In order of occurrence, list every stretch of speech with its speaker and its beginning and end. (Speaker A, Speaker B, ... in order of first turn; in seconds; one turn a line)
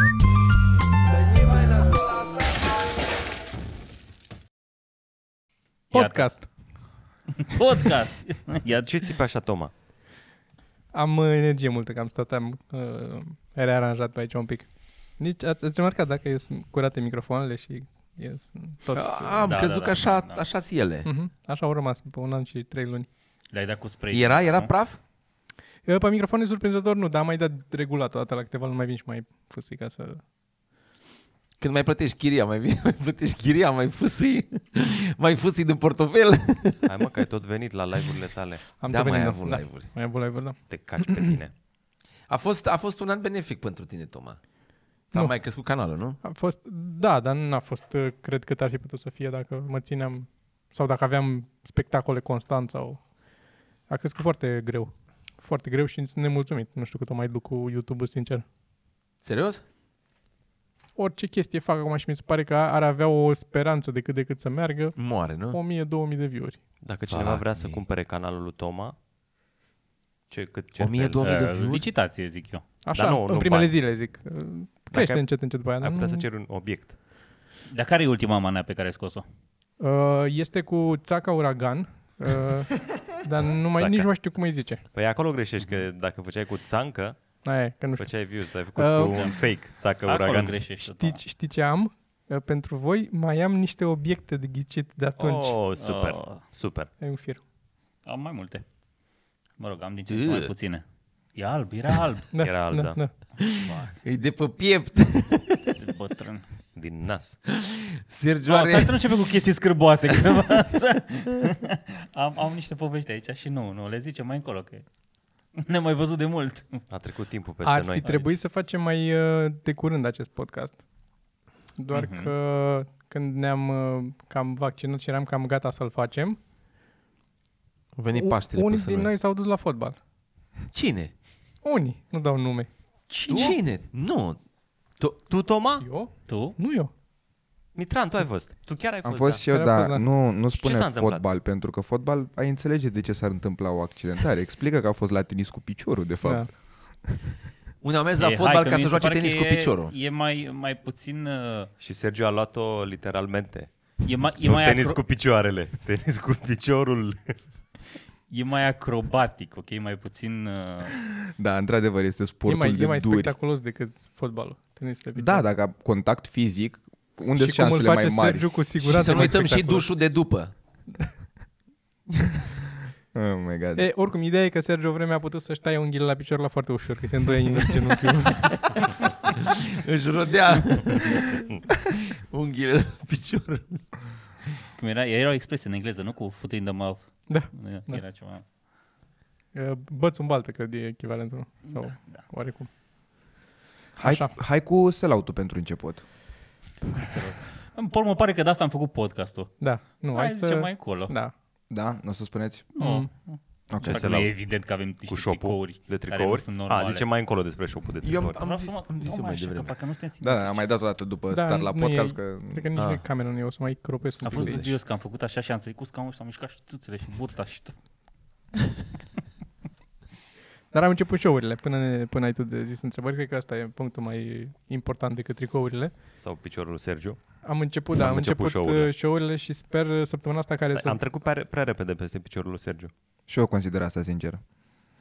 Speaker A: 5.9-6.3
Speaker B: 5.9-6.5
Speaker A: 7.4-8.9
Speaker C: 8.7-9.7
Speaker B: 10.9-19.5
Speaker D: 18.9-21.1
Speaker A: 19.4-20.4
Speaker B: 21.1-23.1
Speaker A: 23.5-24.7
Speaker D: 24.1-25.0
Speaker B: 25.9-30.2
Speaker D: 31.6-37.0
Speaker C: 36.8-38.6
Speaker B: 38.8-41.3
Speaker D: 38.9-39.9
Speaker C: 40.7-41.5
Speaker D: 42.3-44.4
Speaker D: 45.1-46.2
Speaker B: 46.2-53.1
Speaker B: 53.9-58.4
Speaker D: 59.2-59.6
Speaker B: 61.0-66.6
Speaker D: 65.0-65.6
Speaker C: 66.8-69.0
Speaker D: 67.1-67.8
Speaker C: 70.3-71.3
Speaker D: 70.8-71.8
Speaker A: 71.2-72.6
Speaker B: 72.8-76.2
Speaker C: 72.9-73.8
Speaker C: 74.9-77.0
Speaker A: 77.7-79.2
Speaker B: 79.8-84.8
Speaker C: 83.6-84.1
Speaker C: 84.9-87.2
Speaker B: 87.4-89.3
Speaker C: 88.0-90.7
Speaker A: 89.0-91.2
Speaker B: 90.8-95.6
Speaker C: 95.2-96.9
Speaker A: 95.8-96.4
Speaker B: 97.0-97.4
Speaker A: 98.0-98.7
Speaker A: 99.6-100.8
Speaker D: 100.1-100.5
Speaker A: 101.3-102.3
Speaker B: 102.3-103.1
Speaker C: 102.4-103.0
Speaker D: 103.4-105.8
Speaker A: 103.5-104.0
Speaker A: 105.8-106.5
Speaker C: 106.8-107.4
Speaker D: 107.5-109.1
Speaker A: 108.5-114.8
Speaker A: 115.6-116.8
Speaker C: 116.9-118.1
Speaker B: 117.7-120.8
Speaker A: 118.0-118.3
Speaker B: 121.8-126.4
Speaker A: 121.9-122.3
Speaker D: 128.0-129.1
Speaker B: 128.1-130.0
Speaker D: 130.7-131.1
Speaker B: 131.6-132.7
Speaker A: 133.1-133.6
Speaker D: 133.3-134.4
Speaker C: 135.3-135.9
Speaker B: 135.8-136.9
Speaker A: 136.3-136.6
Speaker C: 137.8-139.5
Speaker E: 139.0-147.1
Speaker B: 139.5-140.1
Speaker C: 140.6-141.2
Speaker B: 146.2-146.5
Speaker D: 147.8-149.9
Speaker A: 148.2-151.7
Speaker C: 151.8-157.4
Speaker A: 154.0-155.0
Speaker A: 158.3-161.0
Speaker E: 161.4-163.3
Speaker B: 162.5-165.5
Speaker E: 165.2-168.5
Speaker B: 167.4-169.9
Speaker D: 168.8-170.5
Speaker E: 173.1-173.9
Speaker B: 173.8-179.0
Speaker D: 178.4-183.9
Speaker A: 184.8-188.4
Speaker B: 187.3-188.0
Speaker B: 189.5-192.7
Speaker A: 191.8-192.2
Speaker E: 194.0-196.0
Speaker B: 194.0-194.3
Speaker A: 196.9-201.1
Speaker B: 199.6-201.3
Speaker E: 201.7-202.7
Speaker A: 202.8-207.1
Speaker B: 202.8-203.1
Speaker E: 203.7-204.1
Speaker C: 203.8-204.4
Speaker C: 205.1-208.4
Speaker D: 208.0-209.8
Speaker A: 208.3-210.7
Speaker E: 210.2-212.7
Speaker B: 211.3-214.7
Speaker D: 212.8-213.0
Speaker D: 214.2-214.7
Speaker A: 214.2-217.8
Speaker B: 220.7-225.9
Speaker C: 226.2-227.2
Speaker B: 227.4-231.0
Speaker C: 227.9-228.9
Speaker C: 230.7-232.9
Speaker E: 233.3-234.4